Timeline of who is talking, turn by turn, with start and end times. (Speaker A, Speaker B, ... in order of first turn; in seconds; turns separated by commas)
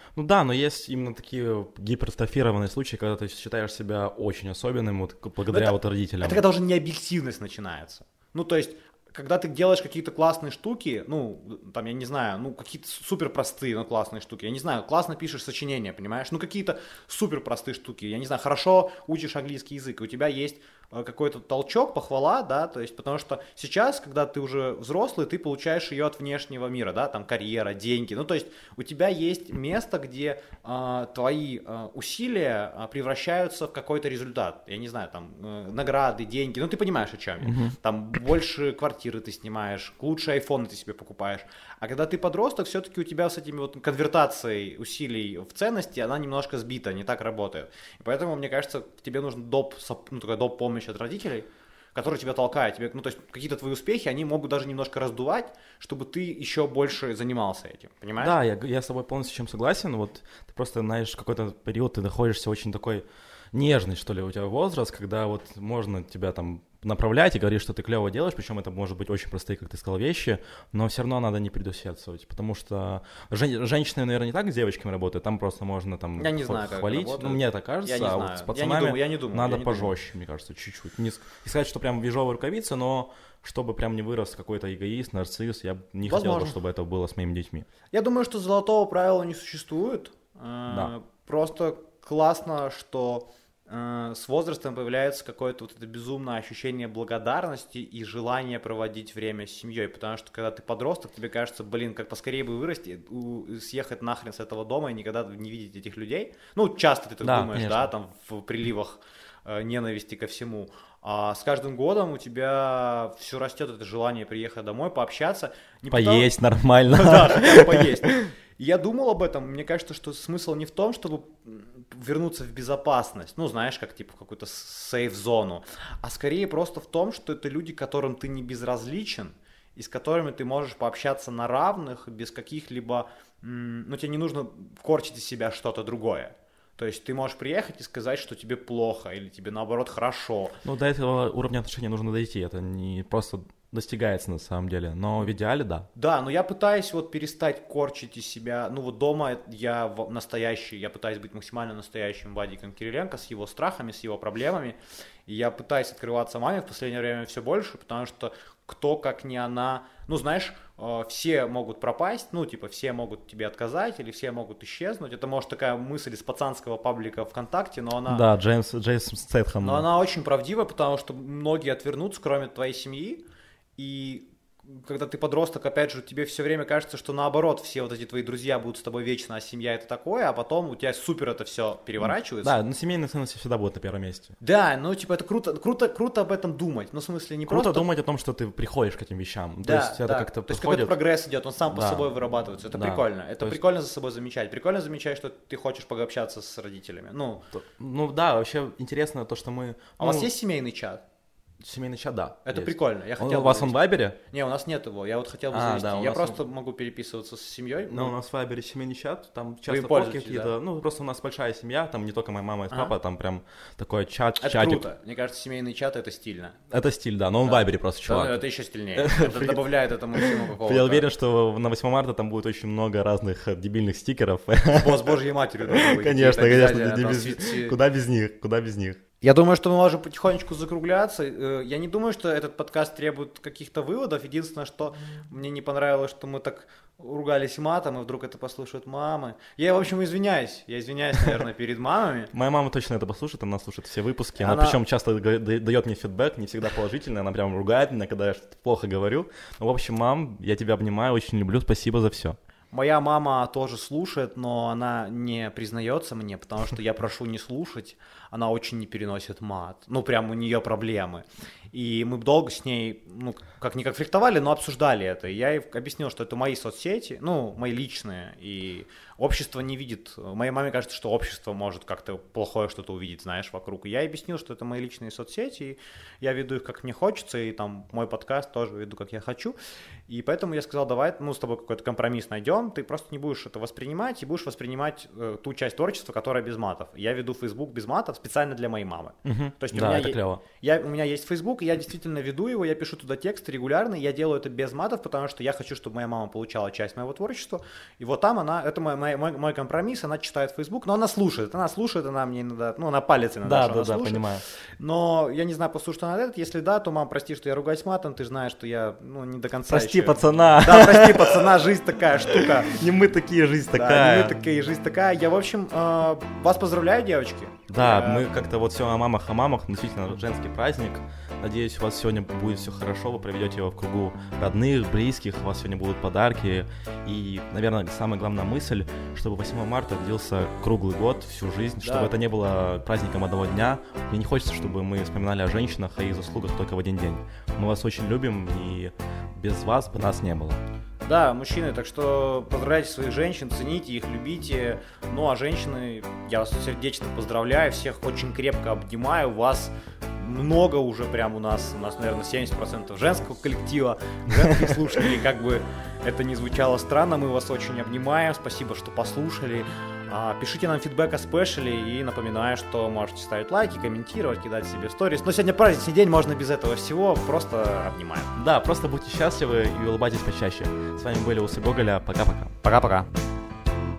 Speaker A: 0.1-6.4, Speaker B: 5.5-58.4, Speaker A: 37.4-37.7, Speaker A: 58.2-87.7, Speaker B: 76.2-79.9, Speaker B: 86.0-86.6, Speaker B: 87.9-116.3, Speaker A: 107.2-107.9, Speaker A: 115.9-118.3, Speaker B: 116.9-140.6, Speaker A: 140.6-145.9, Speaker B: 145.9-168.2, Speaker A: 168.1-169.9, Speaker B: 169.6-173.2, Speaker B: 173.8-182.5, Speaker A: 182.0-184.3, Speaker B: 184.4-187.9, Speaker A: 187.5-190.9, Speaker B: 189.6-197.5, Speaker A: 191.7-192.1, Speaker A: 192.7-193.6, Speaker A: 197.5-200.3, Speaker B: 200.0-201.0, Speaker A: 201.6-204.2, Speaker B: 202.4-208.2, Speaker A: 205.5-206.4, Speaker A: 207.9-214.8, Speaker B: 209.7-210.6, Speaker B: 214.4-216.6, Speaker A: 216.7-218.4, Speaker B: 217.5-221.1, Speaker A: 218.9-229.0, Speaker B: 224.7-227.8, Speaker B: 229.2-242.3, Speaker A: 242.3-252.4, Speaker B: 244.4-244.8, Speaker B: 252.7-279.6, Speaker B: 280.1-304.2, Speaker A: 289.2-290.4, Speaker A: 303.4-304.4, Speaker B: 304.8-312.8, Speaker A: 309.7-311.6, Speaker A: 312.1-314.4, Speaker B: 313.7-318.3, Speaker A: 317.7-340.6, Speaker B: 331.8-332.1, Speaker B: 341.1-368.4, Speaker A: 368.4-372.6, Speaker B: 372.6-373.1